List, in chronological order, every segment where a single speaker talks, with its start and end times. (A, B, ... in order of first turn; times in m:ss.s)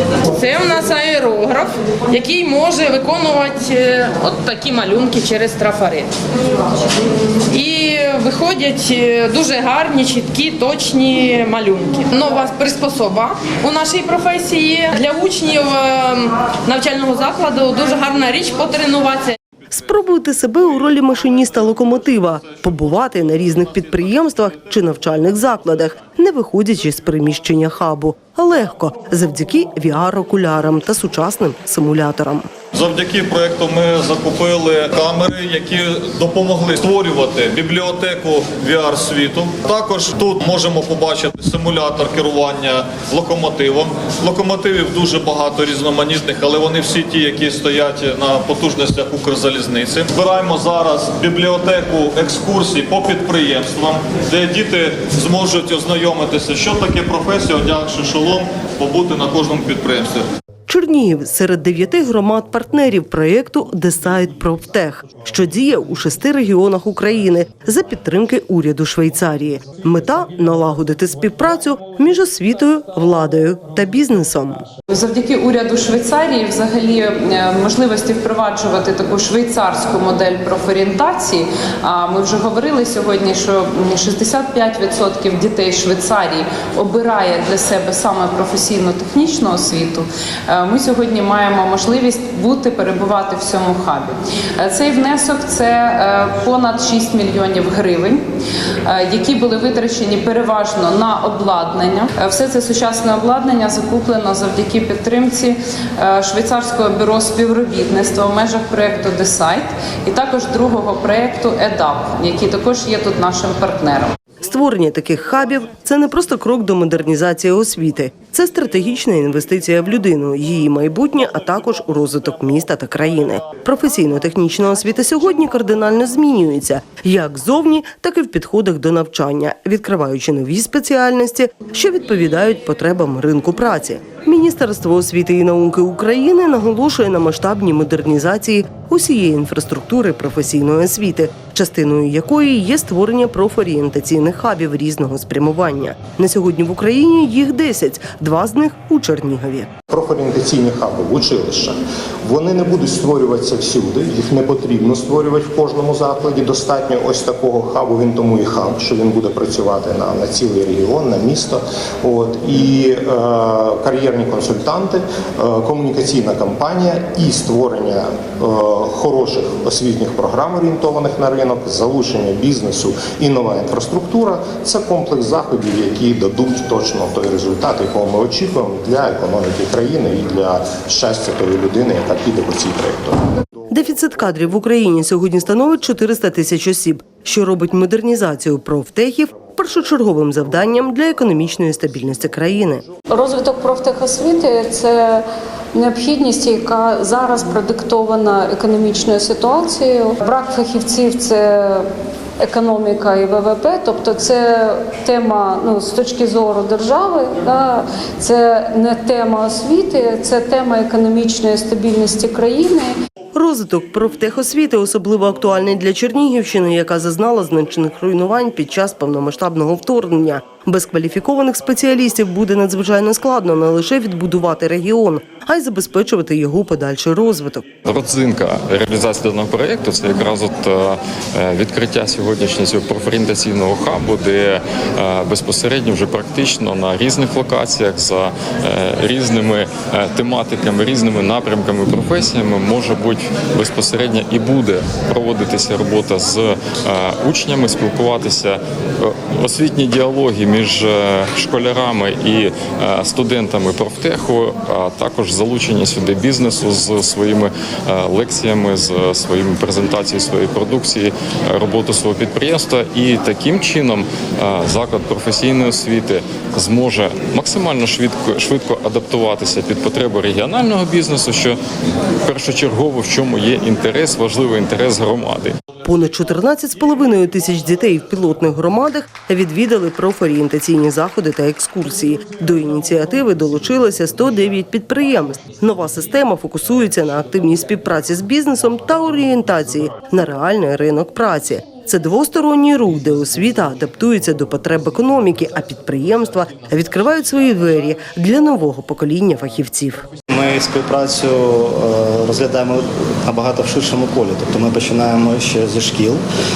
0:00.3-0:19.4 A
0:19.7-0:32.5 B
0:32.8-1:00.2 C
1:00.7-1:14.6 B
1:14.9-1:38.2 D
1:38.8-1:54.1 D
1:54.4-2:29.7 B
2:29.9-3:03.2 E
3:03.7-3:12.8 B
3:13.1-3:15.2 F
3:15.7-3:21.8 F
3:22.4-3:32.9 F
3:33.3-3:47.6 B
3:47.8-4:31.6 G
4:32.2-4:35.6 G
4:35.8-5:00.0 B
5:00.3-5:06.2 H